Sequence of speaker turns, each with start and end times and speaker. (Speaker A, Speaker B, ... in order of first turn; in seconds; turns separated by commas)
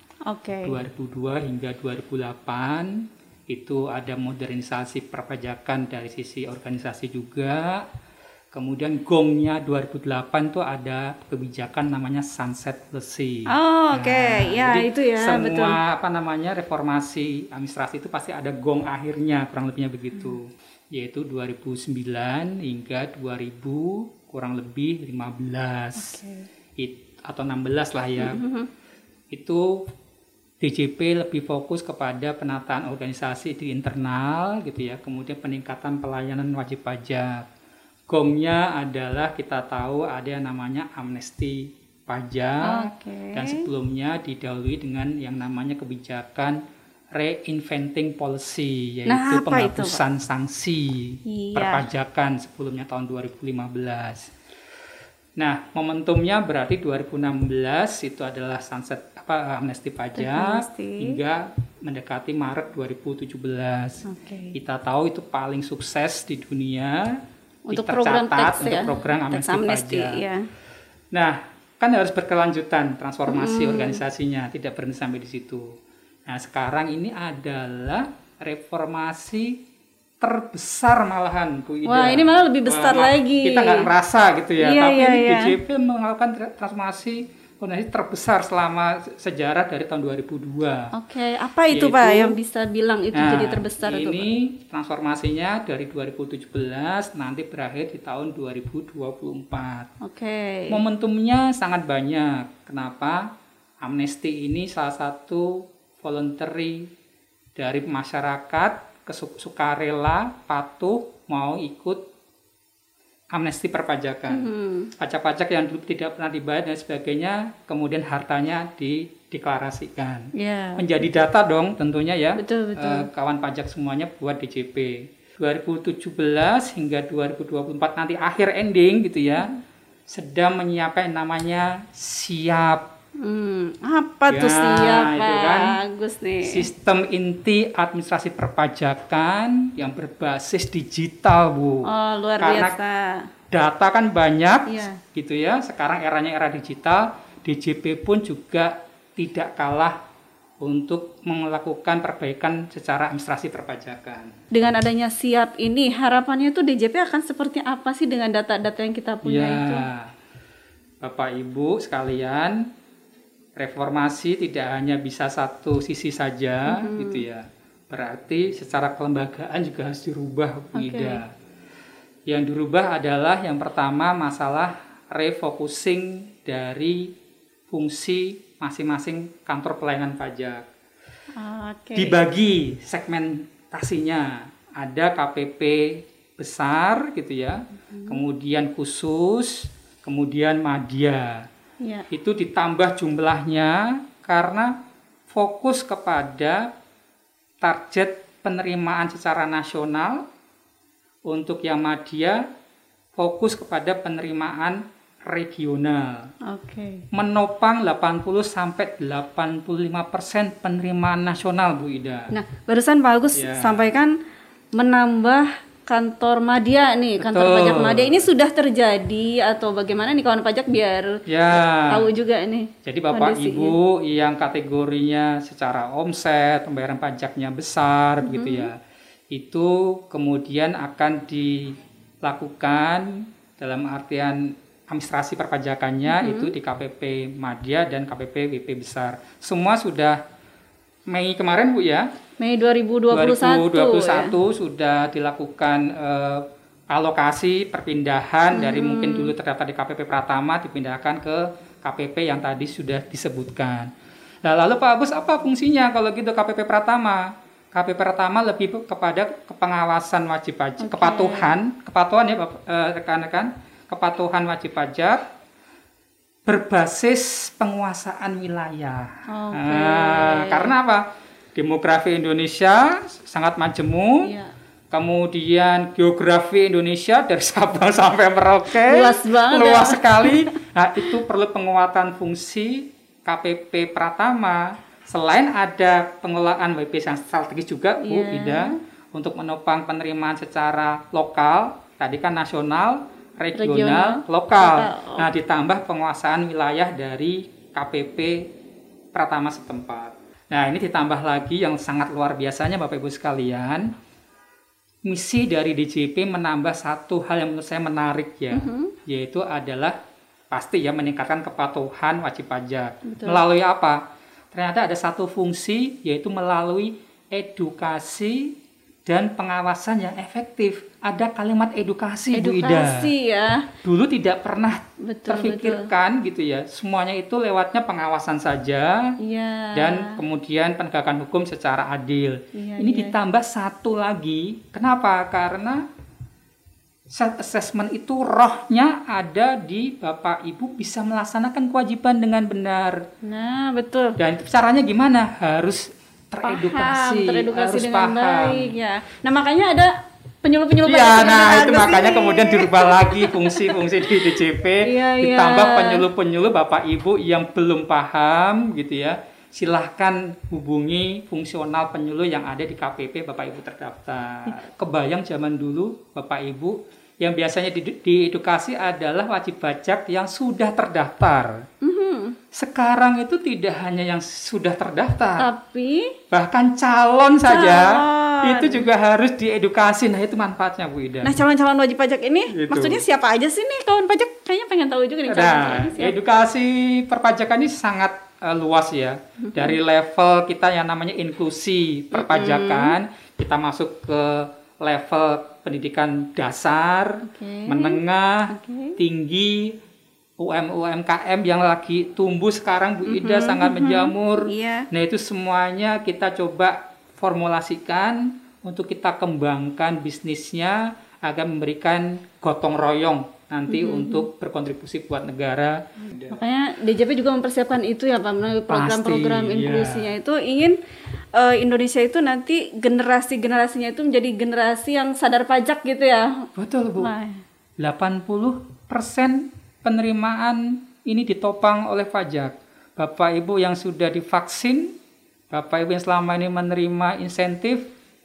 Speaker A: 0.2-0.8, Speaker B: 0.6-7.8, Speaker B: 8.5-26.2, Speaker A: 13.5-15.8, Speaker A: 26.0-26.5, Speaker B: 26.8-28.4, Speaker A: 28.2-28.7, Speaker B: 29.3-29.8, Speaker B: 30.6-37.4, Speaker B: 38.1-46.6, Speaker A: 42.6-43.6, Speaker B: 47.2-54.3, Speaker A: 49.1-50.0, Speaker A: 51.3-51.8, Speaker B: 55.4-67.2, Speaker A: 60.2-61.2, Speaker A: 64.0-64.5, Speaker A: 67.7-70.4, Speaker B: 67.7-70.2, Speaker B: 71.1-75.7, Speaker A: 73.3-74.0, Speaker B: 76.3-79.6, Speaker B: 80.2-90.9, Speaker A: 81.8-83.9, Speaker A: 84.6-85.5, Speaker A: 90.9-94.3, Speaker B: 91.7-92.3, Speaker B: 93.1-99.9, Speaker A: 100.0-100.8, Speaker B: 100.7-103.3, Speaker B: 103.8-106.9, Speaker B: 107.5-112.0, Speaker B: 113.3-129.5, Speaker A: 114.3-114.9, Speaker A: 120.3-120.8, Speaker A: 122.4-123.1, Speaker B: 130.1-132.9, Speaker A: 133.2-136.6, Speaker B: 134.3-135.8, Speaker B: 136.4-141.9, Speaker A: 141.9-143.2, Speaker B: 142.4-142.7, Speaker B: 143.5-150.0, Speaker A: 144.7-145.0, Speaker B: 150.6-154.3, Speaker A: 154.5-159.9, Speaker B: 159.2-160.1, Speaker B: 161.0-162.7, Speaker B: 163.6-171.3, Speaker A: 166.7-167.2, Speaker A: 170.7-171.2, Speaker B: 172.3-177.1, Speaker B: 177.7-180.7, Speaker A: 181.3-182.2, Speaker B: 182.0-191.5, Speaker A: 187.9-188.2, Speaker A: 191.8-192.1, Speaker B: 192.1-194.8, Speaker B: 195.3-196.7, Speaker B: 197.6-200.2, Speaker B: 201.3-202.4, Speaker B: 203.2-206.3, Speaker A: 206.5-207.0, Speaker B: 207.1-212.3, Speaker A: 212.3-214.2, Speaker B: 213.3-213.9, Speaker A: 214.7-223.7, Speaker B: 217.2-218.2, Speaker B: 221.3-222.1, Speaker B: 222.8-228.8, Speaker A: 228.2-228.7, Speaker B: 229.3-240.2, Speaker A: 236.1-236.5, Speaker B: 241.1-242.1, Speaker A: 242.4-244.3, Speaker B: 243.1-253.9, Speaker A: 248.5-249.3, Speaker B: 254.4-265.2, Speaker A: 260.8-261.5, Speaker B: 266.5-274.3, Speaker A: 269.3-270.7, Speaker A: 274.2-274.5, Speaker B: 274.9-298.4, Speaker A: 278.7-280.5, Speaker A: 288.0-288.7, Speaker A: 293.5-295.2, Speaker B: 299.1-303.9, Speaker B: 305.1-310.0, Speaker A: 308.5-308.9, Speaker B: 310.5-314.0, Speaker A: 313.1-313.4, Speaker B: 314.5-318.6, Speaker B: 319.1-323.1, Speaker A: 322.3-323.7, Speaker B: 323.8-329.2, Speaker A: 325.0-325.9, Speaker A: 329.2-330.2, Speaker B: 329.7-335.8, Speaker A: 332.5-333.1, Speaker B: 337.1-343.0, Speaker A: 343.2-344.1, Speaker B: 344.2-348.8, Speaker A: 346.4-349.9, Speaker A: 350.4-356.0, Speaker B: 350.9-371.6, Speaker A: 371.8-372.4, Speaker B: 372.5-375.5, Speaker A: 375.4-376.1, Speaker B: 376.3-381.4, Speaker A: 377.5-378.9, Speaker A: 381.2-386.1, Speaker B: 382.5-383.0, Speaker B: 385.3-399.8, Speaker A: 389.4-389.8, Speaker A: 392.1-393.0, Speaker A: 397.2-399.0, Speaker B: 400.4-416.4, Speaker A: 403.1-404.9, Speaker A: 413.7-414.2, Speaker A: 416.3-420.8, Speaker B: 418.7-420.1, Speaker A: 421.3-426.5, Speaker B: 426.6-427.1, Speaker A: 427.0-427.4, Speaker B: 427.8-434.9, Speaker B: 435.5-437.9